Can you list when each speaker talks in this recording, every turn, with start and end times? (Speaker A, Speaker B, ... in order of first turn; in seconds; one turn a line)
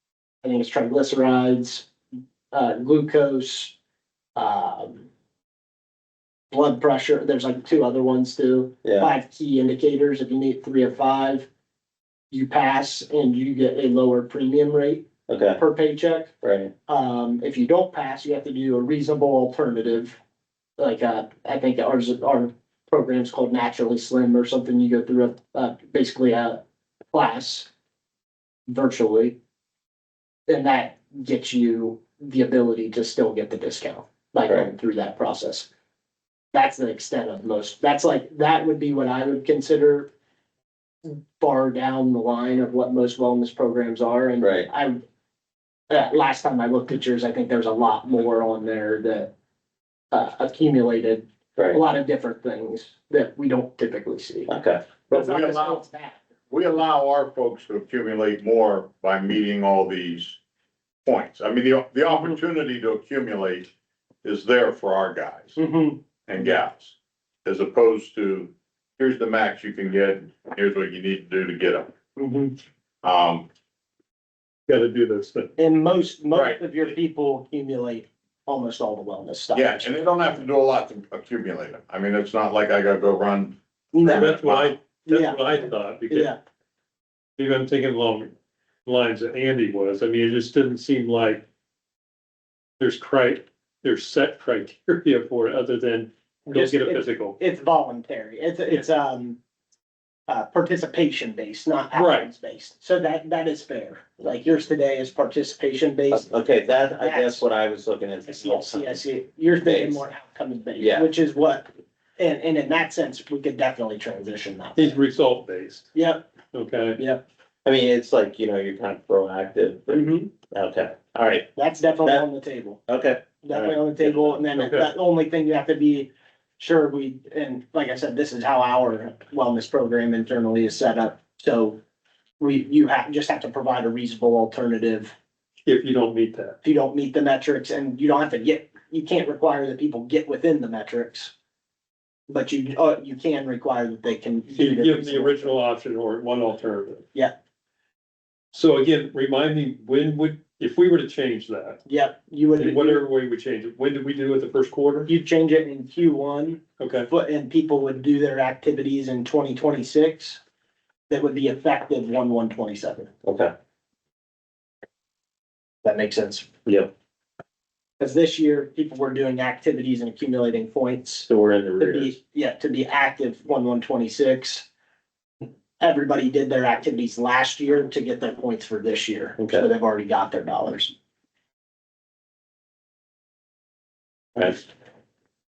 Speaker A: 0.4-1.9
Speaker A: 2.5-3.8
Speaker A: 4.3-5.1
Speaker A: 6.5-11.5
Speaker B: 8.8-9.1
Speaker A: 12.3-16.3
Speaker B: 15.3-15.6
Speaker B: 16.4-16.7
Speaker A: 16.9-20.2
Speaker A: 20.8-26.6
Speaker A: 27.1-27.7
Speaker A: 28.7-29.4
Speaker A: 30.5-35.7
Speaker A: 36.5-40.1
Speaker A: 41.0-45.0
Speaker B: 44.4-44.7
Speaker A: 45.9-49.3
Speaker A: 50.1-54.5
Speaker B: 54.5-54.8
Speaker A: 55.1-56.2
Speaker C: 55.1-55.9
Speaker C: 56.5-60.4
Speaker C: 61.0-63.7
Speaker C: 64.2-65.6
Speaker A: 65.6-66.5
Speaker C: 66.3-71.9
Speaker A: 72.2-72.6
Speaker C: 73.0-73.5
Speaker D: 74.7-75.5
Speaker A: 75.6-79.9
Speaker C: 79.5-84.8
Speaker A: 83.9-84.4
Speaker D: 84.1-86.3
Speaker A: 85.1-85.4
Speaker A: 86.1-86.4
Speaker D: 87.4-88.3
Speaker D: 88.8-91.5
Speaker D: 92.8-97.4
Speaker A: 96.5-99.4
Speaker A: 100.3-106.3
Speaker D: 101.9-102.3
Speaker B: 106.1-109.0
Speaker A: 106.9-107.5
Speaker A: 108.3-115.0
Speaker B: 109.6-110.0
Speaker B: 110.8-111.1
Speaker D: 114.8-115.9
Speaker A: 115.9-116.3
Speaker D: 116.5-117.0
Speaker B: 117.6-121.5
Speaker A: 119.9-120.3
Speaker A: 121.5-122.8
Speaker B: 122.9-124.4
Speaker A: 123.4-131.8
Speaker D: 124.6-124.9
Speaker A: 132.4-135.1
Speaker D: 135.7-136.6
Speaker A: 136.6-141.3
Speaker A: 142.3-145.4
Speaker D: 144.6-147.0
Speaker D: 148.5-151.8
Speaker A: 151.9-153.0
Speaker D: 152.6-155.1
Speaker A: 155.1-160.4
Speaker D: 156.8-157.1
Speaker A: 161.1-163.1
Speaker B: 163.2-163.5
Speaker A: 165.8-166.5
Speaker A: 168.0-171.3
Speaker B: 171.3-172.1
Speaker A: 171.8-174.7
Speaker A: 175.8-180.9
Speaker B: 179.4-179.7
Speaker B: 184.4-184.7